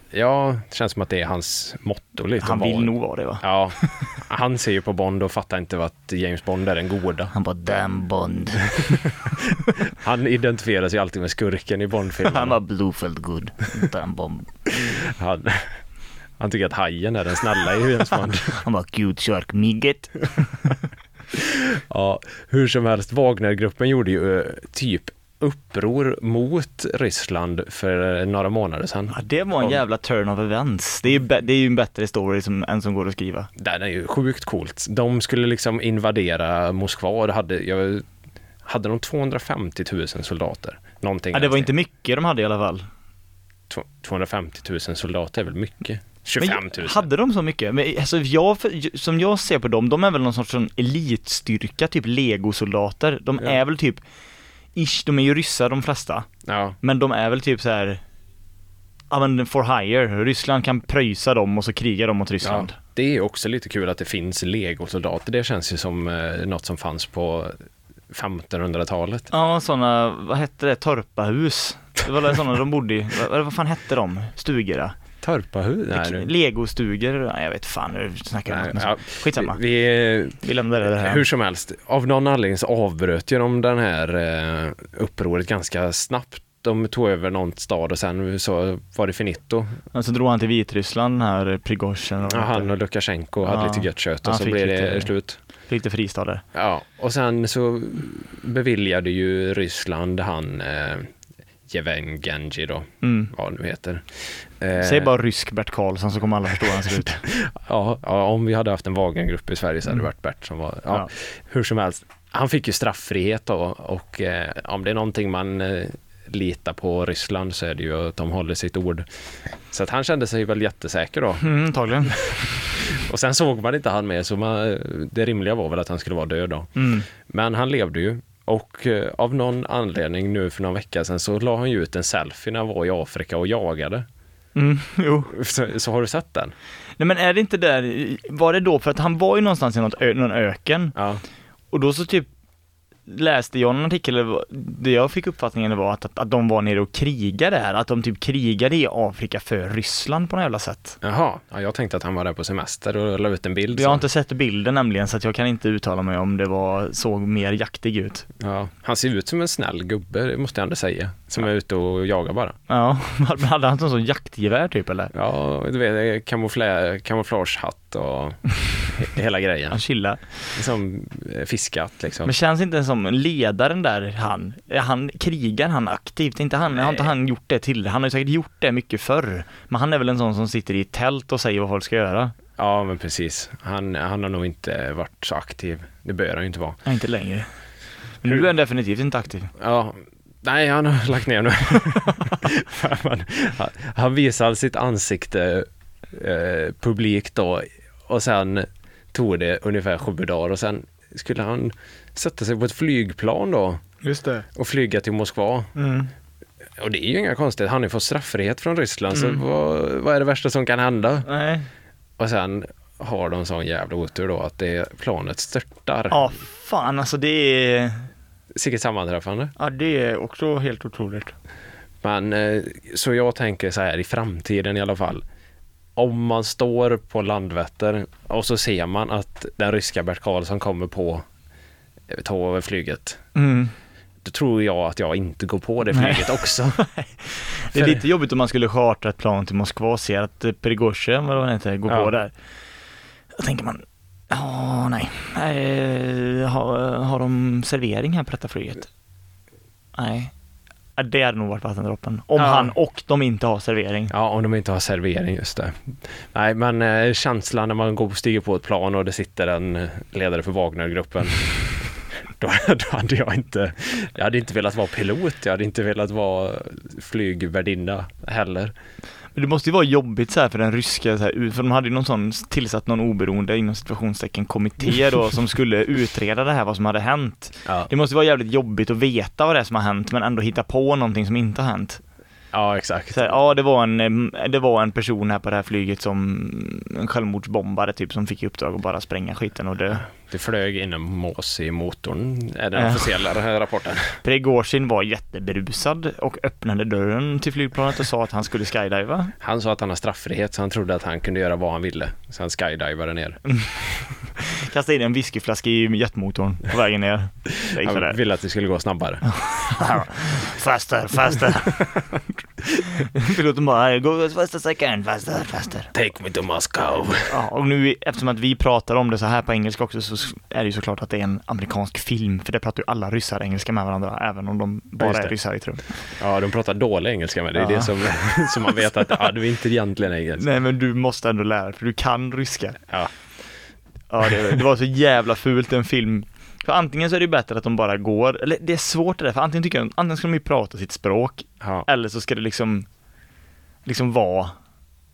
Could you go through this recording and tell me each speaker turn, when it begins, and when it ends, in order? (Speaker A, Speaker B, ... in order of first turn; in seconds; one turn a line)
Speaker A: 0.1-7.3
Speaker B: 2.4-4.0
Speaker B: 7.3-9.0
Speaker A: 8.8-12.6
Speaker B: 12.3-14.7
Speaker A: 14.8-15.8
Speaker A: 16.4-18.6
Speaker B: 18.5-20.3
Speaker A: 21.3-29.8
Speaker B: 29.1-33.5
Speaker A: 33.6-38.1
Speaker A: 38.6-41.7
Speaker B: 41.3-42.9
Speaker A: 43.7-47.0
Speaker B: 46.4-54.0
Speaker B: 54.8-56.3
Speaker A: 56.5-56.8
Speaker B: 56.8-58.0
Speaker B: 59.1-62.8
Speaker A: 62.4-67.6
Speaker A: 68.1-69.3
Speaker B: 69.3-75.0
Speaker A: 75.2-76.3
Speaker B: 75.9-79.6
Speaker A: 78.5-89.8
Speaker B: 80.4-81.2
Speaker B: 89.9-92.7
Speaker A: 92.2-95.4
Speaker B: 93.4-95.1
Speaker B: 95.7-96.4
Speaker A: 96.5-101.1
Speaker A: 101.7-105.1
Speaker B: 103.0-103.3
Speaker B: 104.8-107.3
Speaker A: 107.3-119.1
Speaker A: 119.7-121.4
Speaker B: 121.4-122.4
Speaker A: 122.7-134.1
Speaker B: 126.8-127.1
Speaker B: 134.6-135.3
Speaker A: 135.3-136.5
Speaker B: 137.0-140.9
Speaker A: 140.9-141.2
Speaker B: 141.7-142.3
Speaker B: 143.1-151.0
Speaker A: 151.0-154.0
Speaker B: 153.7-158.3
Speaker A: 158.4-162.6
Speaker B: 162.7-165.1
Speaker A: 165.1-169.8
Speaker B: 169.7-170.6
Speaker A: 170.5-172.3
Speaker B: 172.2-182.3
Speaker A: 176.8-177.1
Speaker A: 182.6-186.8
Speaker B: 186.9-187.5
Speaker B: 188.2-189.5
Speaker A: 189.6-203.8
Speaker B: 204.0-204.5
Speaker A: 204.5-205.7
Speaker B: 205.8-206.1
Speaker A: 206.8-211.3
Speaker B: 209.1-209.4
Speaker B: 211.3-211.7
Speaker A: 212.2-216.3
Speaker B: 216.1-218.1
Speaker A: 218.6-219.5
Speaker B: 219.6-221.3
Speaker A: 222.0-225.2
Speaker A: 226.0-231.3
Speaker A: 232.1-233.2
Speaker B: 233.3-233.7
Speaker A: 234.2-236.8
Speaker B: 235.9-242.3
Speaker A: 237.7-238.0
Speaker B: 243.4-248.9
Speaker B: 250.0-250.3
Speaker B: 251.0-254.1
Speaker A: 252.4-252.7
Speaker A: 254.1-268.7
Speaker B: 269.4-282.0
Speaker A: 282.5-283.3
Speaker B: 283.1-290.1
Speaker A: 290.1-294.2
Speaker B: 292.8-293.1
Speaker B: 294.2-299.3
Speaker A: 299.4-303.4
Speaker B: 304.3-308.2
Speaker A: 307.5-309.3
Speaker B: 309.3-311.9
Speaker B: 312.8-315.9
Speaker A: 315.9-317.3
Speaker B: 317.3-325.8
Speaker A: 325.0-325.3
Speaker A: 326.2-330.4
Speaker B: 327.6-327.9
Speaker B: 330.4-332.8
Speaker B: 334.1-342.9
Speaker A: 341.6-341.9
Speaker B: 343.9-344.6